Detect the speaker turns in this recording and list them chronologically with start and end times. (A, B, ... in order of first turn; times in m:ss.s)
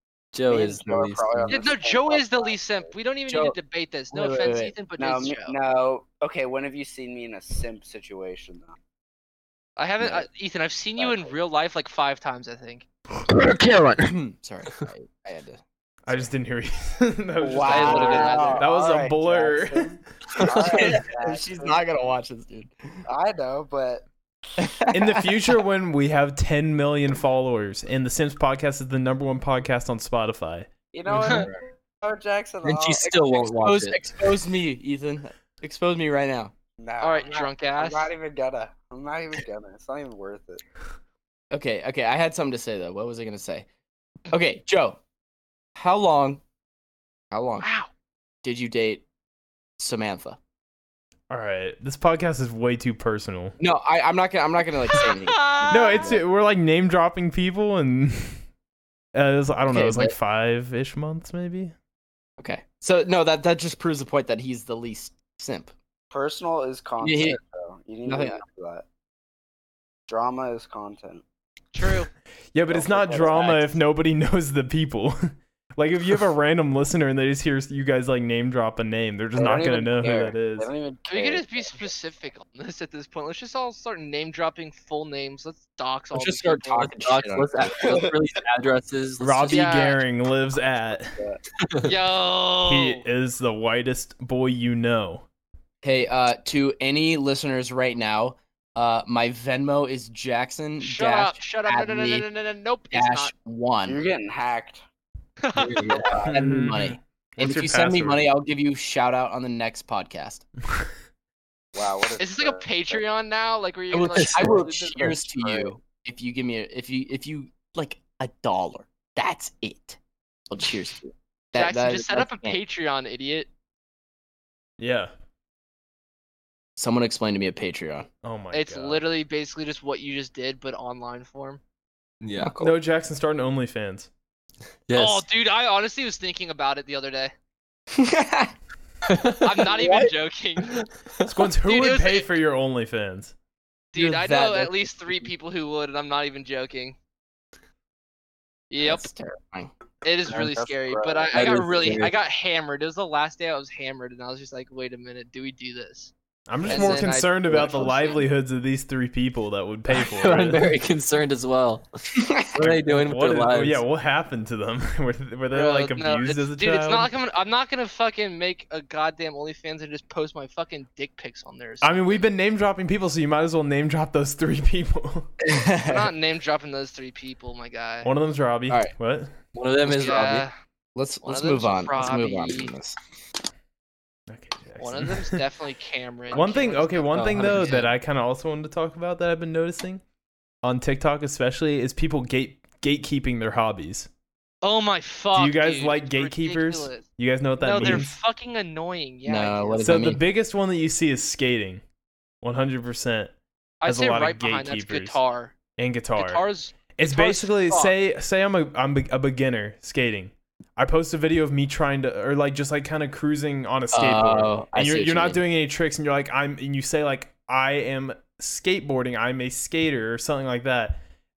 0:00.3-0:01.6 A
0:00.5-0:02.9 B
0:01.5-0:05.6 C
0:03.3-0:03.6 D
0:04.1-0:04.8 D
0:05.0-0:08.8 B
0:09.8-0:12.9 C
0:10.0-0:10.3 B
0:11.0-0:11.4 B
0:13.1-0:16.3 D
0:16.1-0:20.0 E
0:17.4-0:21.8 B
0:17.6-0:18.6 D
0:17.7-0:18.6 C
0:20.4-0:21.0 A
0:20.4-0:23.0 D
0:23.1-0:24.1 B
0:24.6-0:25.3 D
0:24.9-0:30.7 E
0:30.9-0:33.7 B
0:31.1-0:31.6 A
0:32.6-0:34.0 A
0:33.5-0:36.5 D
0:36.8-0:40.6 B
0:37.0-0:38.1 C
0:41.5-0:43.7 D
0:44.3-0:45.0 D
0:45.8-0:46.4 D
0:47.3-0:47.7 D
0:47.6-0:47.9 C
0:48.4-0:49.0 D
0:49.8-0:50.4 D
0:51.3-0:53.6 E
0:53.6-0:56.2 D
0:54.9-0:56.1 C
0:55.7-0:58.4 E
0:59.1-1:01.7 E
0:59.7-1:00.1 D
1:02.4-1:05.7 D
1:06.1-1:08.9 B
1:07.0-1:07.4 D
1:08.1-1:08.4 D
1:10.1-1:11.2 B
1:11.7-1:12.1 C
1:12.5-1:20.7 E
1:12.7-1:13.6 B
1:13.3-1:13.7 D
1:19.4-1:21.9 B
1:21.1-1:26.9 C
1:26.1-1:27.7 D
1:26.8-1:29.9 A
1:27.8-1:28.1 B
1:29.2-1:31.2 E
1:29.5-1:30.0 C
1:31.6-1:31.9 A
1:31.8-1:33.0 C
1:32.6-1:35.2 E
1:35.8-1:42.3 D
1:40.8-1:43.3 C
1:42.9-1:44.0 D
1:43.8-1:44.8 B
1:45.4-1:46.2 C
1:45.6-1:46.2 A
1:46.0-1:50.5 D
1:46.2-1:48.3 E
1:51.7-1:53.0 B
1:52.2-1:55.5 C
1:53.9-2:02.6 D
1:54.1-1:54.6 A
1:55.0-1:55.7 B
2:01.6-2:03.5 C
2:04.8-2:05.1 E
2:06.8-2:08.1 D
2:08.2-2:09.0 E
2:08.5-2:11.6 C
2:12.2-2:12.5 A
2:12.6-2:14.1 E
2:14.9-2:15.3 A
2:14.9-2:17.3 C
2:18.0-2:18.5 D
2:19.1-2:19.6 A
2:19.4-2:20.8 C
2:19.7-2:20.1 D
2:21.2-2:23.3 E
2:21.6-2:22.3 C
2:23.9-2:27.0 C
2:24.0-2:25.3 D
2:28.7-2:29.1 C
2:28.8-2:29.7 D
2:30.0-2:36.1 C
2:30.3-2:31.6 B
2:31.4-2:32.1 D
2:31.4-2:32.1 A
2:36.5-2:40.7 E
2:36.7-2:38.2 C
2:36.7-2:37.0 D
2:39.9-2:41.9 A
2:42.2-2:42.6 D
2:42.4-2:43.8 A
2:42.6-2:47.1 E
2:45.5-2:52.2 C
2:51.8-2:55.3 E
2:55.4-2:56.1 D
2:55.8-2:58.1 C
2:58.0-2:59.4 E
2:59.5-3:00.5 A
2:59.8-3:00.5 C
3:01.0-3:03.0 D
3:01.2-3:02.7 C
3:04.3-3:05.4 E
3:04.8-3:07.9 C
3:06.3-3:10.0 E
3:07.1-3:07.9 A
3:10.6-3:14.1 E
3:14.6-3:17.1 C
3:15.3-3:18.2 E
3:17.6-3:20.1 C
3:17.8-3:18.1 D
3:19.3-3:20.2 D
3:19.8-3:21.8 E
3:22.4-3:23.3 E
3:23.8-3:25.6 C
3:23.8-3:25.2 E
3:25.8-3:41.0 E
3:26.2-3:27.9 C
3:33.9-3:35.4 D